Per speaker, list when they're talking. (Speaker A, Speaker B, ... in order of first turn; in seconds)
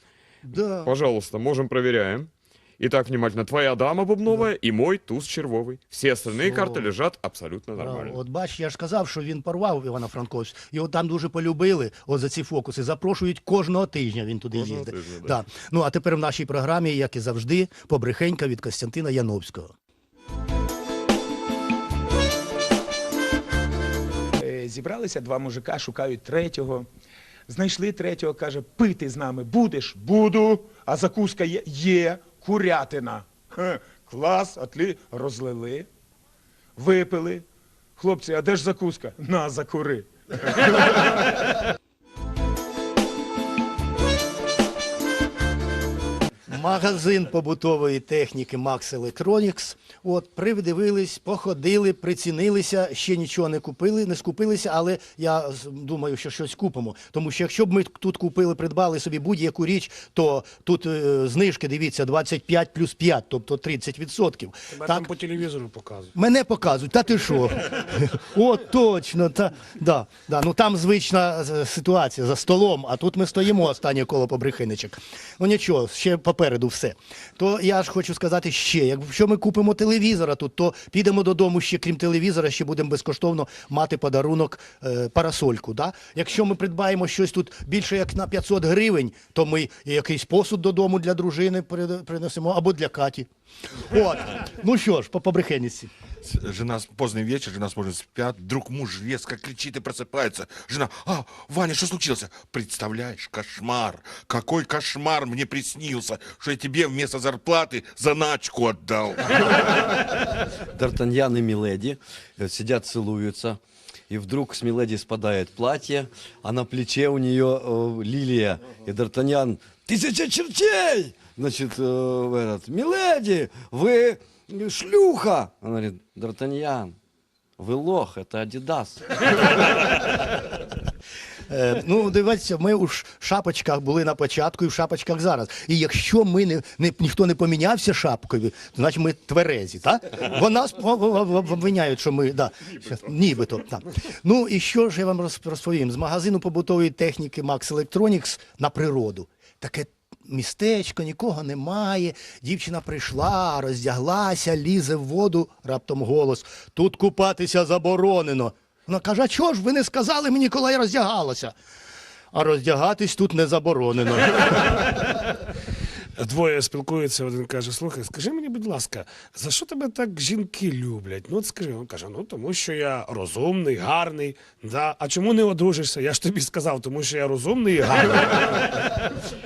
Speaker A: 0.4-0.9, 6.4-6.9, 7.8-19.7, 46.5-65.1, 66.1-95.9, 131.5-161.5, 162.3-165.2
Speaker B: 0.8-8.2, 14.5-15.3
Speaker C: 24.4-26.9, 27.5-35.9, 36.8-37.5, 38.0-40.7
Speaker D: 64.7-66.1, 166.2-179.0
Speaker E: 96.2-109.8
Speaker F: 110.7-127.0, 127.6-129.4